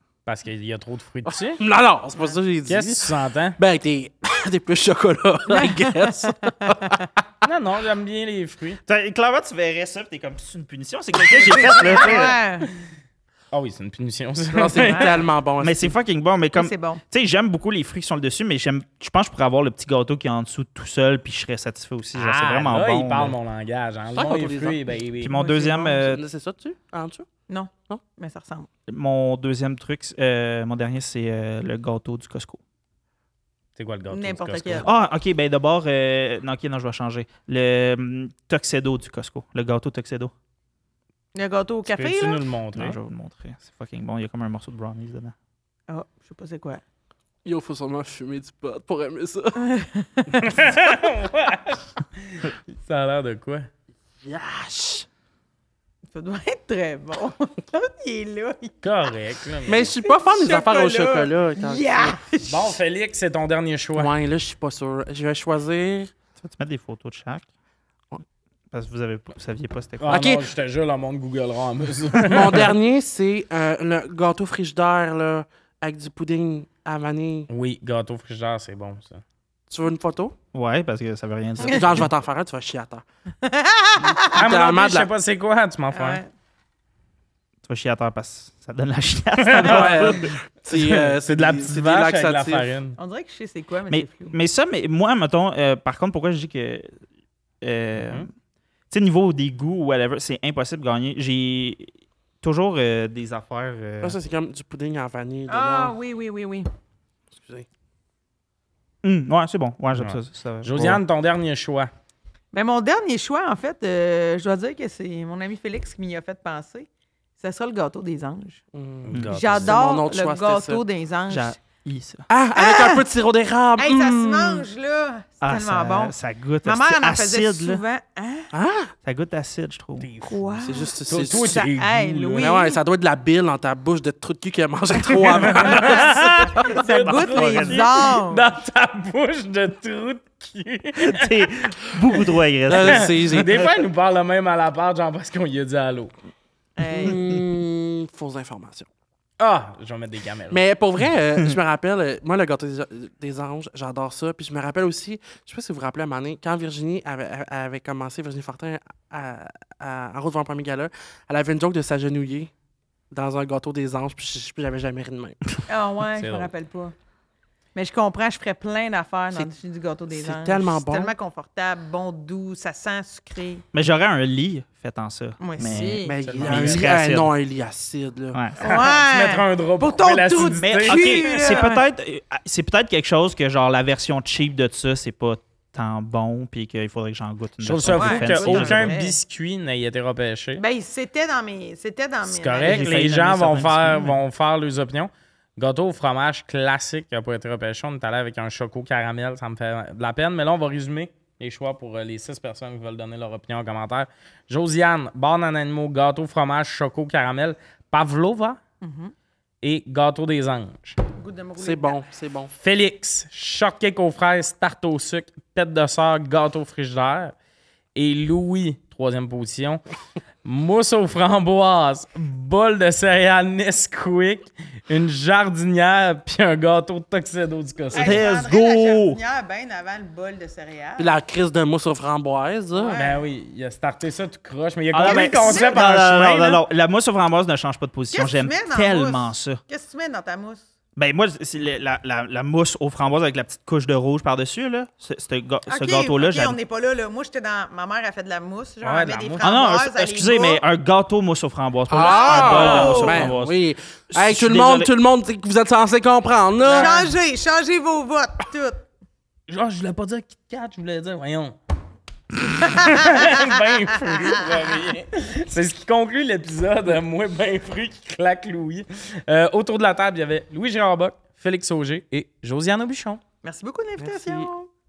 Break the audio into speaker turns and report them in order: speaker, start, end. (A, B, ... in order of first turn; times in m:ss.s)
0:00.2-0:01.6 A
0:01.3-0:07.0 B
0:02.6-0:03.6 A
0:05.5-0:06.1 C
0:06.6-0:07.0 C
0:07.4-0:08.8 A
0:08.8-0:12.4 D
0:11.5-0:12.7 C
0:13.5-0:15.2 A
0:14.5-0:15.9 B
0:14.9-0:15.1 C
0:15.6-0:23.4 D
0:16.5-0:17.0 C
0:22.1-0:25.4 A
0:24.1-0:24.9 B
0:25.2-0:26.2 D
0:25.3-0:26.0 C
0:25.9-0:27.3 B
0:27.5-0:28.7 C
0:28.9-0:32.6 D
0:33.8-0:34.9 A
0:34.1-0:34.9 C
0:34.8-0:40.3 D
0:41.3-0:42.4 C
0:41.9-0:43.0 A
0:42.7-0:45.3 D
0:45.9-0:46.8 C
0:47.4-0:49.6 B
0:49.6-0:50.8 C
0:50.4-0:53.7 A
0:54.2-0:55.0 B
0:56.1-0:58.8 C
0:58.8-0:59.9 A
0:59.7-1:02.2 B
1:00.1-1:02.8 C
1:02.4-1:04.1 A
1:04.0-1:06.1 B
1:06.4-1:07.4 D
1:08.7-1:10.2 D
1:10.0-1:12.7 A
1:10.1-1:10.4 B
1:12.1-1:12.7 D
1:12.3-1:17.5 B
1:17.5-1:19.2 A
1:19.7-1:20.3 B
1:20.5-1:22.1 D
1:21.6-1:23.0 B
1:23.4-1:24.3 C
1:24.1-1:25.1 B
1:24.3-1:26.2 A
1:25.9-1:26.3 C
1:27.6-1:30.3 D
1:29.4-1:30.1 A
1:29.6-1:32.7 B
1:30.7-1:33.0 A
1:33.0-1:34.3 C
1:33.9-1:36.9 D
1:37.6-1:38.3 D
1:38.0-1:38.3 A
1:38.9-1:44.2 D
1:44.0-1:46.0 B
1:45.5-1:46.7 C
1:47.3-1:47.6 B
1:49.0-1:51.0 D
1:50.0-1:51.9 A
1:52.5-1:56.9 C
1:57.4-1:58.6 C
1:58.7-2:00.8 B
1:59.0-1:59.7 A
1:59.3-2:01.6 C
2:01.3-2:02.2 D
2:02.3-2:04.7 B
2:02.5-2:03.0 C
2:03.8-2:08.5 C
2:05.4-2:07.8 D
2:08.5-2:08.9 B
2:09.0-2:10.1 D
2:10.0-2:12.6 A
2:10.2-2:12.8 C
2:10.6-2:11.6 B
2:12.4-2:16.8 B
2:15.0-2:18.4 C
2:15.4-2:21.5 A
2:17.0-2:17.9 D
2:21.0-2:23.1 D
2:22.7-2:23.6 B
2:22.8-2:26.1 A
2:26.8-2:27.2 C
2:26.9-2:28.9 B
2:29.4-2:30.6 A
2:30.5-2:42.5 B
2:43.1-2:45.5 B
2:45.7-2:46.9 C
2:46.2-2:46.5 A
2:47.7-2:53.6 C
2:50.1-2:51.1 B
2:53.7-2:57.3 D
2:55.4-2:56.1 C
2:56.0-2:58.4 B
2:56.2-2:56.8 A
2:58.6-3:01.8 C
2:58.6-3:01.6 A
3:00.6-3:09.0 D
3:07.6-3:10.6 A
3:07.9-3:09.2 C
3:10.6-3:13.0 C
3:12.2-3:28.6 A
3:12.6-3:14.2 D
3:28.8-3:29.1 C
3:29.6-3:31.0 A
3:31.2-3:32.0 C
3:31.6-3:32.5 B
3:32.5-3:37.3 A
3:37.9-3:39.8 A
3:40.4-3:48.3 A
3:47.9-3:51.1 C
3:48.0-3:49.2 D
3:51.0-3:53.0 B
3:52.7-3:53.2 C
3:53.0-3:56.6 A
3:54.9-3:59.6 D
3:55.0-3:55.9 C
3:58.1-4:00.6 C
4:01.0-4:06.6 D
4:05.7-4:10.6 C
4:08.8-4:09.6 A
4:09.4-4:13.5 D
4:11.9-4:17.1 B
4:12.0-4:13.3 C
4:12.4-4:13.3 A
4:14.1-4:14.9 D
4:16.6-4:17.1 A
4:16.7-4:18.8 C
4:19.5-4:21.6 A
4:22.6-4:33.2 A
4:22.8-4:23.5 C
4:24.1-4:24.4 C
4:33.4-4:34.7 C
4:34.0-4:34.5 B